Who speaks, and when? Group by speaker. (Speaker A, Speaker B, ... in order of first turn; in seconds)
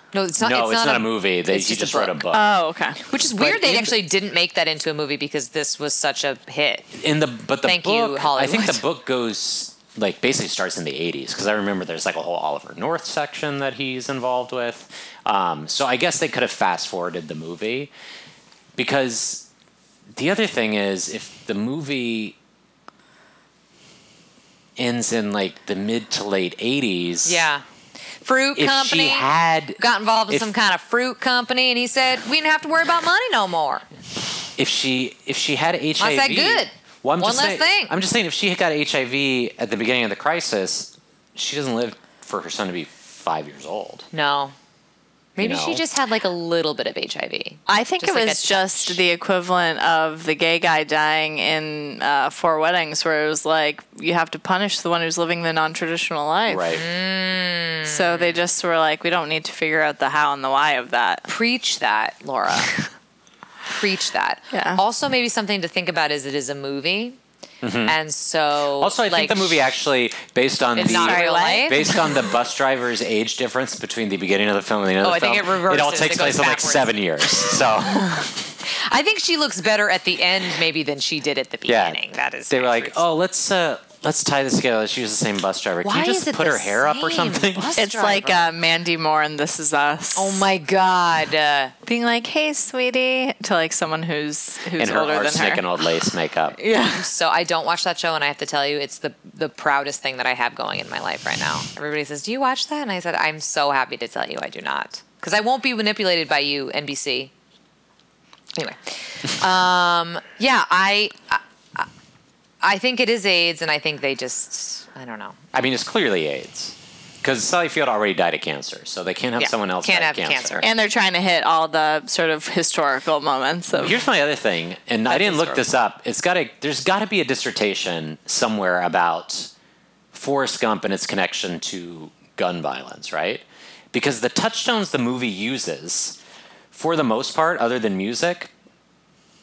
Speaker A: 0.1-2.2, 3.1-6.9, 7.6-8.8, 27.2-27.6, 28.2-33.9, 36.0-37.9, 44.1-44.5, 45.4-49.0, 56.7-58.4, 61.3-62.7, 63.7-67.2, 67.8-69.7, 70.8-72.0, 75.0-83.0, 85.8-88.5, 90.2-91.7, 96.9-107.3, 108.5-111.9, 112.6-115.4, 119.4-120.7
Speaker B: 0.4-2.4, 3.4-4.0, 7.0-17.9, 18.8-19.5, 20.1-22.4, 24.8-27.4, 28.6-30.5, 34.6-44.1, 45.4-45.8, 56.5-56.9, 67.6-68.0, 68.8-78.4, 81.7-82.0, 82.5-87.8, 94.8-96.6, 115.5-120.7, 123.7-129.5, 130.1-136.2, 136.7-138.5
Speaker C: 2.3-3.0, 47.7-56.7, 57.9-61.3, 64.5-64.8, 70.9-72.2, 87.8-90.5, 91.9-95.8, 96.6-97.1, 120.6-124.0